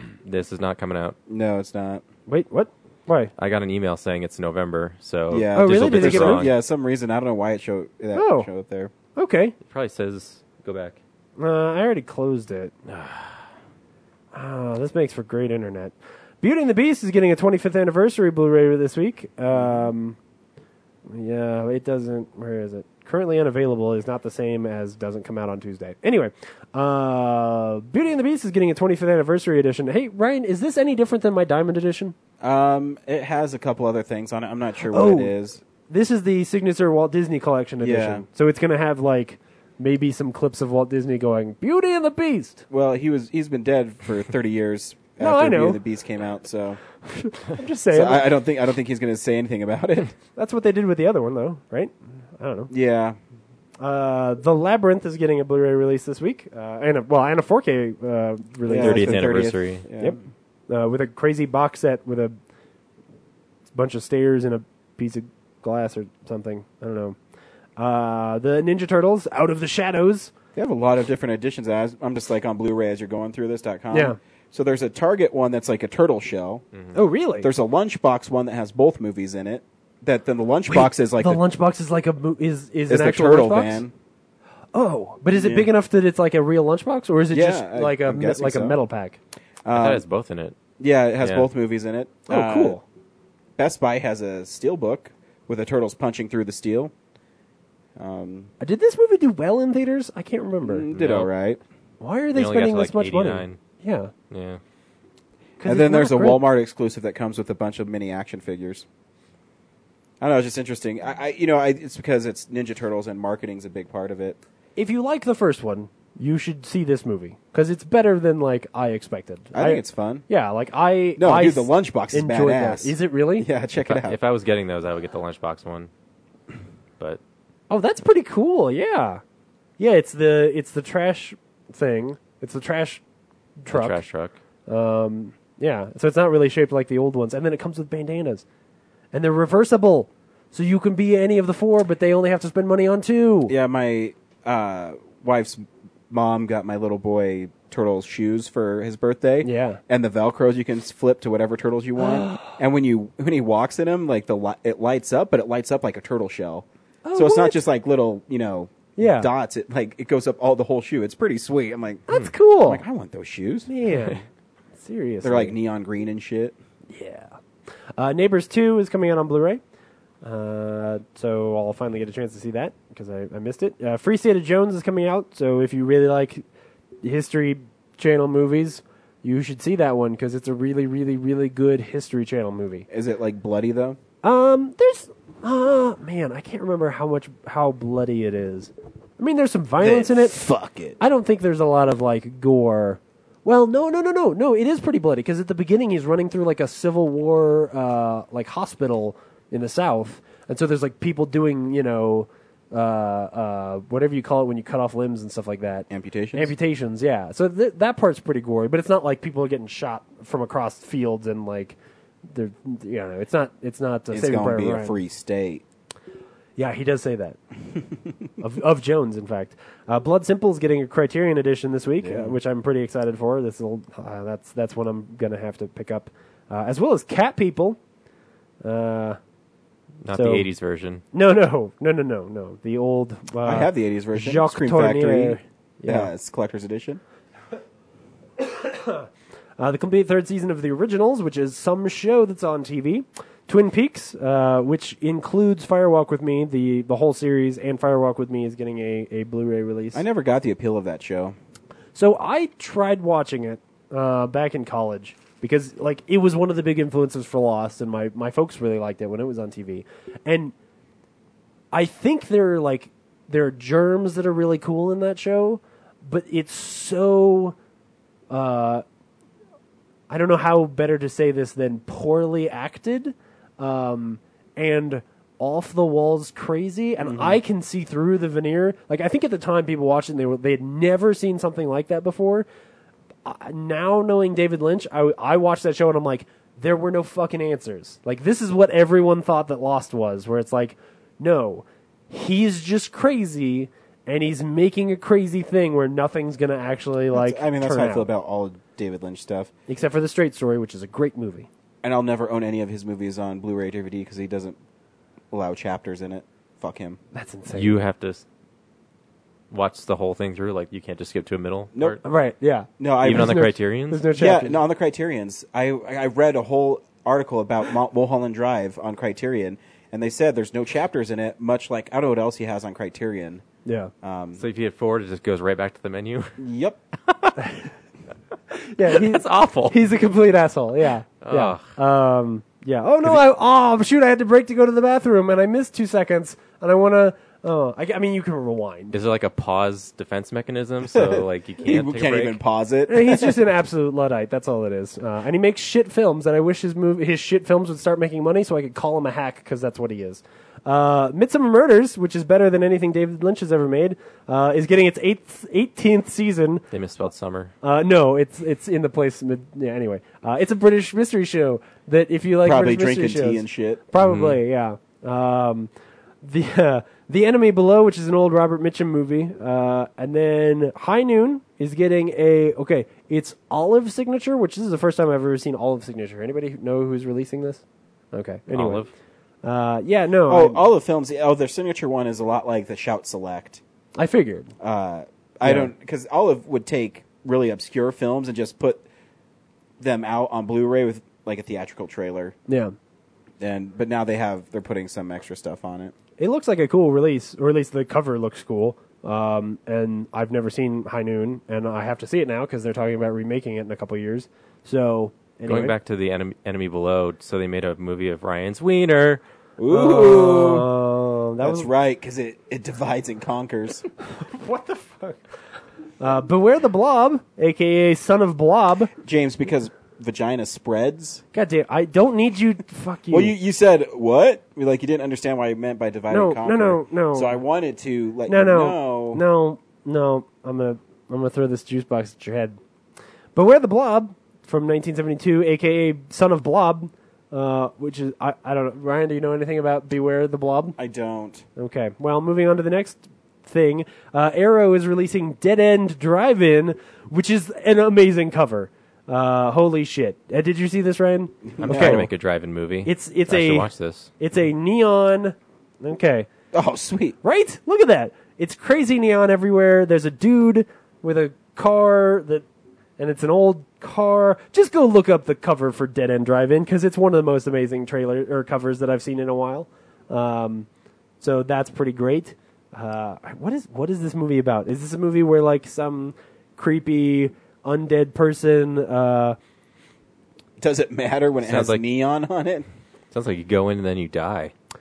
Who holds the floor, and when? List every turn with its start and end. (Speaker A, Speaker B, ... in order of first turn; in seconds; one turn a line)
Speaker A: 0.2-1.1
Speaker B: 1.3-2.0
Speaker C: 2.3-3.3
Speaker A: 3.4-6.6
Speaker B: 5.3-8.9
Speaker C: 5.5-6.5
Speaker C: 8.1-8.5
Speaker C: 9.2-9.6
Speaker A: 9.7-11.0
Speaker C: 11.4-12.7
Speaker A: 12.9-13.4
Speaker C: 14.3-20.2
Speaker B: 19.5-19.9
Speaker C: 21.1-32.1
Speaker B: 32.4-35.6
Speaker C: 34.9-35.3
Speaker C: 35.9-42.6
Speaker B: 37.8-38.2
Speaker B: 42.7-46.8
Speaker C: 45.2-45.8
Speaker C: 47.0-48.3
Speaker B: 47.9-50.1
Speaker C: 50.4-52.7
Speaker B: 52.7-53.2
Speaker C: 53.8-59.4
Speaker B: 58.7-60.2
Speaker A: 58.8-59.9
Speaker C: 60.7-62.4
Speaker C: 63.7-67.2
Speaker C: 67.8-70.3
Speaker B: 70.5-76.6
Speaker C: 73.9-74.2
Speaker C: 76.9-77.5
Speaker B: 77.4-81.4
Speaker C: 80.7-83.8
Speaker B: 82.9-83.9
Speaker C: 84.7-89.2
Speaker B: 85.3-85.7
Speaker B: 87.3-88.8
Speaker B: 89.6-90.0
Speaker A: 89.7-90.6
Speaker B: 90.8-92.8
Speaker A: 91.2-91.5
Speaker C: 92.3-92.8
Speaker B: 93.6-96.9
Speaker B: 98.0-98.5
Speaker C: 98.6-100.9
Speaker B: 100.6-101.6
Speaker A: 100.9-101.3
Speaker C: 102.0-104.1
Speaker A: 102.3-103.6
Speaker A: 104.3-104.6
Speaker C: 105.6-106.4
Speaker B: 105.6-108.8
Speaker B: 110.2-114.4
Speaker C: 114.8-123.5
Speaker B: 119.5-120.2
Speaker B: 121.2-124.2
Speaker A: 123.8-125.9
Speaker C: 127.7-129.2
Speaker C: 129.8-133.0
Speaker C: 133.6-134.0
Speaker A: 133.7-134.3
Speaker C: 134.7-138.4
Speaker C: 139.1-143.5
Speaker B: 143.5-162.1
Speaker C: 149.4-149.8
Speaker C: 152.0-152.4
Speaker C: 157.1-157.6
Speaker C: 159.0-159.3
Speaker C: 162.1-162.8
Speaker B: 162.6-163.7
Speaker C: 163.7-164.2
Speaker C: 164.8-165.6
Speaker B: 165.2-166.6
Speaker C: 166.9-167.3
Speaker C: 168.0-169.6
Speaker C: 170.2-176.4
Speaker C: 177.0-182.9
Speaker B: 182.9-184.0
Speaker C: 184.2-190.4
Speaker B: 189.8-191.0
Speaker C: 191.0-214.9
Speaker B: 205.9-206.5
Speaker B: 214.1-215.6
Speaker C: 216.6-217.4
Speaker C: 218.4-227.8
Speaker B: 222.0-222.4
Speaker C: 228.6-229.2
Speaker A: 230.0-231.0
Speaker C: 230.1-230.5
Speaker C: 231.1-236.1
Speaker B: 233.4-237.0
Speaker C: 238.4-239.1
Speaker C: 239.6-250.0
Speaker B: 249.9-251.3
Speaker C: 251.9-260.5
Speaker C: 261.7-267.6
Speaker C: 268.3-268.8
Speaker C: 270.1-282.5
Speaker B: 277.0-277.4
Speaker C: 283.2-298.1
Speaker B: 297.1-299.5
Speaker C: 299.7-301.5
Speaker B: 301.8-304.6
Speaker B: 305.3-307.0
Speaker C: 307.1-307.8
Speaker A: 307.5-308.2
Speaker A: 309.5-312.0
Speaker C: 312.0-314.6
Speaker B: 312.8-313.4
Speaker A: 313.0-314.1
Speaker B: 314.1-323.4
Speaker C: 323.6-323.9
Speaker B: 324.0-324.4
Speaker A: 324.4-326.4
Speaker B: 326.4-326.8
Speaker A: 327.1-327.4
Speaker C: 328.5-338.9
Speaker A: 328.9-329.8
Speaker A: 331.2-331.7
Speaker A: 338.9-342.4
Speaker B: 340.8-343.4
Speaker C: 342.9-356.6
Speaker A: 356.7-357.5
Speaker C: 357.6-365.7
Speaker B: 362.4-363.8
Speaker A: 364.0-364.4
Speaker C: 366.2-377.6
Speaker C: 378.1-378.8
Speaker A: 378.5-378.9
Speaker C: 379.4-380.6
Speaker B: 380.3-383.6
Speaker C: 384.0-384.5
Speaker B: 384.6-388.9
Speaker C: 385.4-385.7
Speaker B: 389.8-392.4
Speaker C: 392.5-392.7
Speaker B: 393.4-395.9
Speaker C: 396.2-405.7
Speaker A: 405.4-409.2
Speaker B: 409.6-410.7
Speaker C: 409.7-411.7
Speaker B: 411.4-413.9
Speaker C: 414.0-415.2
Speaker C: 416.0-418.9
Speaker B: 419.0-421.2
Speaker C: 421.3-423.3
Speaker B: 423.1-429.2
Speaker C: 426.1-427.4
Speaker C: 428.3-432.6
Speaker C: 433.4-440.8
Speaker B: 440.8-441.4
Speaker C: 441.6-452.1
Speaker B: 451.5-452.1
Speaker A: 451.6-454.1
Speaker C: 452.9-456.3
Speaker B: 456.5-457.2
Speaker C: 457.2-462.4
Speaker C: 463.0-470.7
Speaker C: 471.2-479.4
Speaker B: 480.6-482.6
Speaker A: 481.4-481.8
Speaker A: 483.1-484.5